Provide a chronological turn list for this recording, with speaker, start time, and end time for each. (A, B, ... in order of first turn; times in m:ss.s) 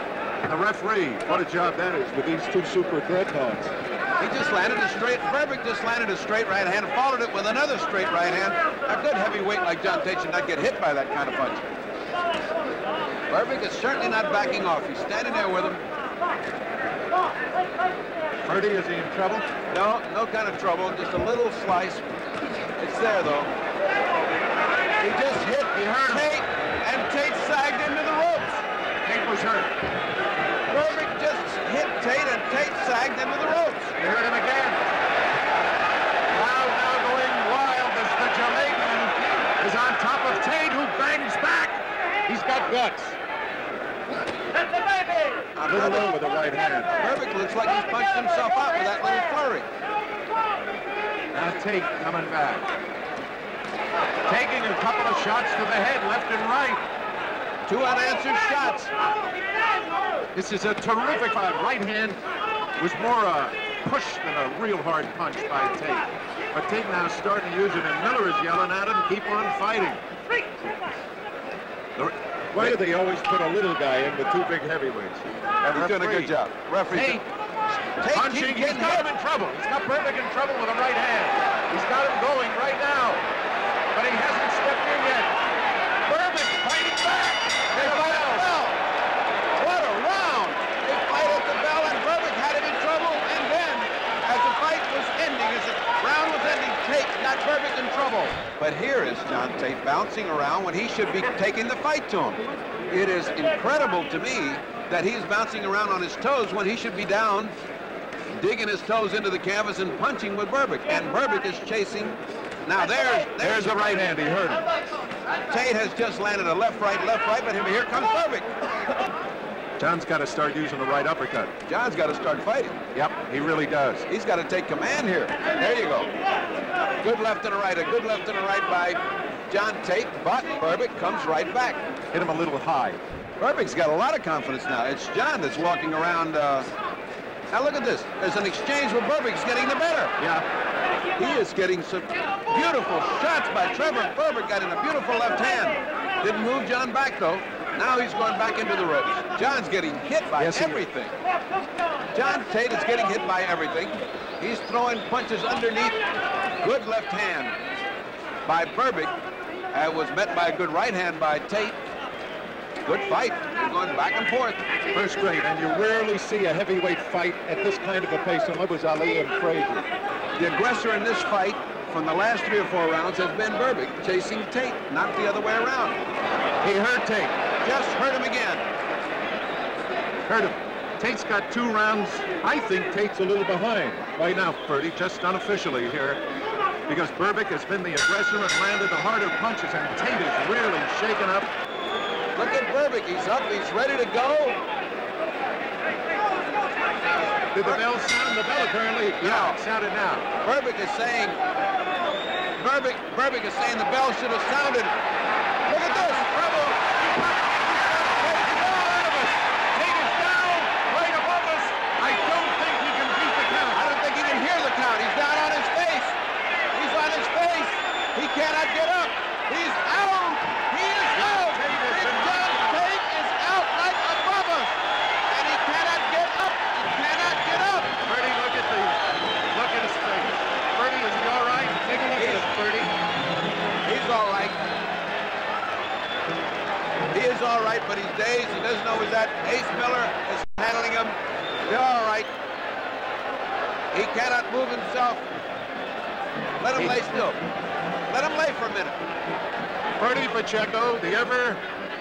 0:00.5-0:03.7 A
0:04.2-0:11.6 B
0:13.3-0:15.8 B
0:18.4-0:19.5 A
0:19.7-0:22.0 B
0:22.8-0:23.5 B
0:25.0-0:28.6 B
0:25.7-0:26.3 A
0:29.0-0:29.7 A
0:30.7-0:34.0 B
0:34.0-0:34.8 A
0:36.3-0:43.2 A
0:45.6-0:46.1 B
0:45.7-0:47.0 A
0:47.0-0:49.7 B
0:51.3-0:52.7 A
0:54.3-0:56.8 A
0:57.7-0:58.9 B
1:00.4-1:02.2 A
1:02.8-1:10.0 A
1:12.0-1:12.8 B
1:12.5-1:16.3 A
1:15.6-1:17.2 B
1:16.9-1:17.2 A
1:18.0-1:19.1 B
1:18.1-1:23.2 A
1:23.9-1:25.3 A
1:26.1-1:28.5 A
1:27.7-1:28.8 B
1:29.6-1:47.6 B
1:48.4-1:54.1 B
1:53.4-1:54.6 A
1:55.5-1:58.5 B
1:59.8-2:01.5 A
2:01.7-2:02.8 B
2:02.9-2:04.1 A
2:04.1-2:06.1 B
2:07.0-2:11.8 B
2:12.1-2:13.0 A
2:13.4-2:16.7 B
2:17.5-2:20.2 B
2:20.2-2:20.4 A
2:21.2-2:31.1 B
2:30.4-2:30.8 A
2:32.1-2:36.0 B
2:36.6-2:37.6 B
2:38.5-2:39.1 B
2:39.7-2:41.8 B
2:42.8-2:44.6 B
2:44.9-2:49.9 A
2:50.4-2:56.0 B
2:56.6-2:57.4 A
2:57.6-2:58.6 B
3:00.3-3:06.2 A
3:06.9-3:11.5 A
3:12.4-3:14.6 B
3:17.5-3:20.3 A
3:19.2-3:19.6 B
3:20.4-3:21.4 B
3:22.6-3:25.0 B
3:25.7-3:26.4 B
3:26.0-3:33.9 A
3:33.7-3:36.2 B
3:36.7-3:44.8 B
3:41.1-3:42.9 A
3:45.3-3:47.9 B
3:48.0-3:49.0 A
3:49.5-3:52.9 A
3:52.2-3:52.5 B
3:53.8-3:54.6 B
3:57.1-4:02.3 B
4:03.9-4:05.2 B
4:06.6-4:07.4 B
4:08.1-4:09.0 B
4:10.0-4:11.6 A